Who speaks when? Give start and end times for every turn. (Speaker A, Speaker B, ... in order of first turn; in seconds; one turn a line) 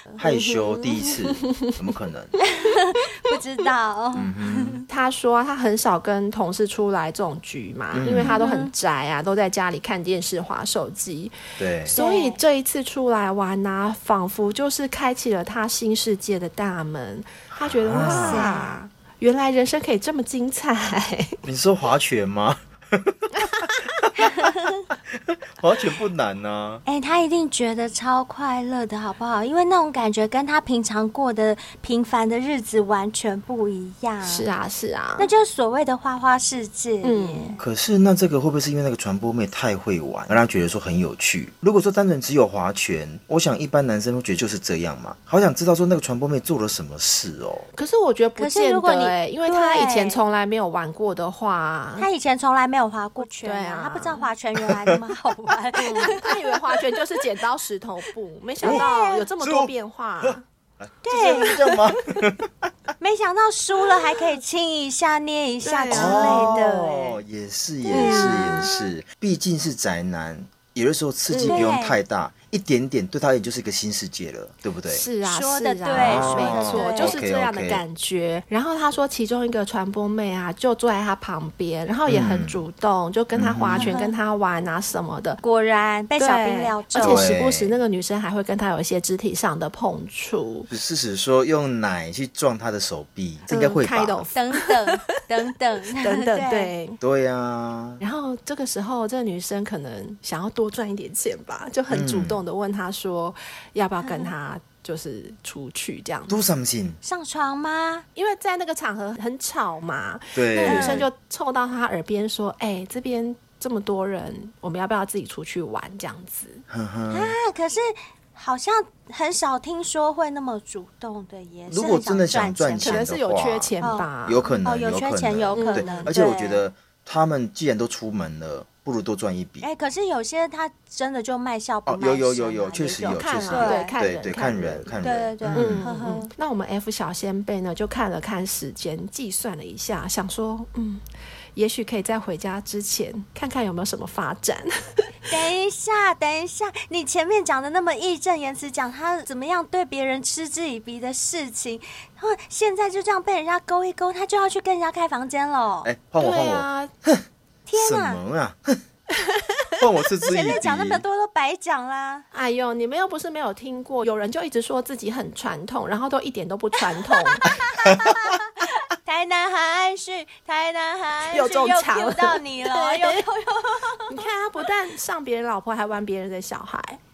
Speaker A: 0.2-1.8
Speaker B: 0.2-2.4
Speaker C: 2.4-4.8
Speaker B: 4.2-4.8
Speaker A: 4.9-11.3
Speaker B: 7.9-8.4
Speaker C: 8.2-8.7
Speaker B: 11.6-12.0
Speaker A: 11.9-21.4
Speaker C: 12.0-12.4
Speaker B: 17.6-18.5
Speaker C: 18.0-18.7
Speaker B: 21.4-24.3
Speaker C: 24.2-24.9
Speaker B: 24.9-26.8
Speaker C: 26.9-34.5
Speaker A: 34.2-35.3
Speaker C: 35.2-37.6
Speaker A: 37.0-37.6
Speaker B: 37.6-47.7
Speaker A: 47.8-52.1
Speaker C: 48.4-50.2
Speaker C: 52.0-56.3
Speaker A: 53.4-54.3
Speaker B: 54.7-55.0
Speaker A: 55.8-60.4
Speaker C: 58.6-59.3
Speaker B: 59.4-59.7
Speaker B: 60.2-62.7
Speaker C: 61.0-61.7
Speaker A: 61.2-61.6
Speaker C: 63.0-67.2
Speaker A: 65.6-66.5
Speaker B: 65.9-75.1
Speaker C: 67.8-68.9
Speaker A: 67.9-68.7
Speaker A: 71.3-71.7
Speaker C: 71.5-72.0
Speaker A: 74.9-85.4
Speaker C: 75.2-77.2
Speaker B: 75.9-77.8
Speaker B: 82.1-82.6
Speaker B: 83.3-84.0
Speaker C: 83.8-84.2
Speaker C: 85.4-87.3
Speaker A: 86.2-90.7
Speaker B: 87.0-87.8
Speaker B: 90.7-94.3
Speaker A: 93.5-95.0
Speaker C: 94.3-96.7
Speaker A: 95.9-97.0
Speaker B: 97.0-98.0
Speaker A: 98.0-106.4
Speaker B: 101.9-102.4
Speaker C: 104.0-104.3
Speaker B: 106.3-107.0
Speaker C: 107.0-108.0
Speaker A: 108.2-116.6
Speaker B: 110.3-111.1
Speaker C: 110.6-111.0
Speaker B: 116.7-117.4
Speaker C: 117.1-123.1
Speaker B: 121.7-123.7
Speaker A: 122.8-124.5
Speaker C: 123.8-124.1
Speaker B: 124.2-129.7
Speaker C: 124.6-126.6
Speaker A: 125.5-126.2
Speaker C: 129.6-133.9
Speaker B: 131.9-135.8
Speaker A: 133.0-135.0
Speaker C: 135.0-136.3
Speaker A: 135.5-141.0
Speaker A: 141.6-145.1
Speaker C: 145.3-155.9
Speaker B: 155.8-157.2
Speaker A: 156.2-156.9
Speaker C: 157.7-158.2
Speaker B: 157.8-158.8
Speaker B: 159.8-161.0
Speaker C: 160.3-162.3
Speaker A: 162.3-167.5
Speaker C: 167.1-174.2
Speaker A: 171.3-173.2
Speaker A: 174.1-177.0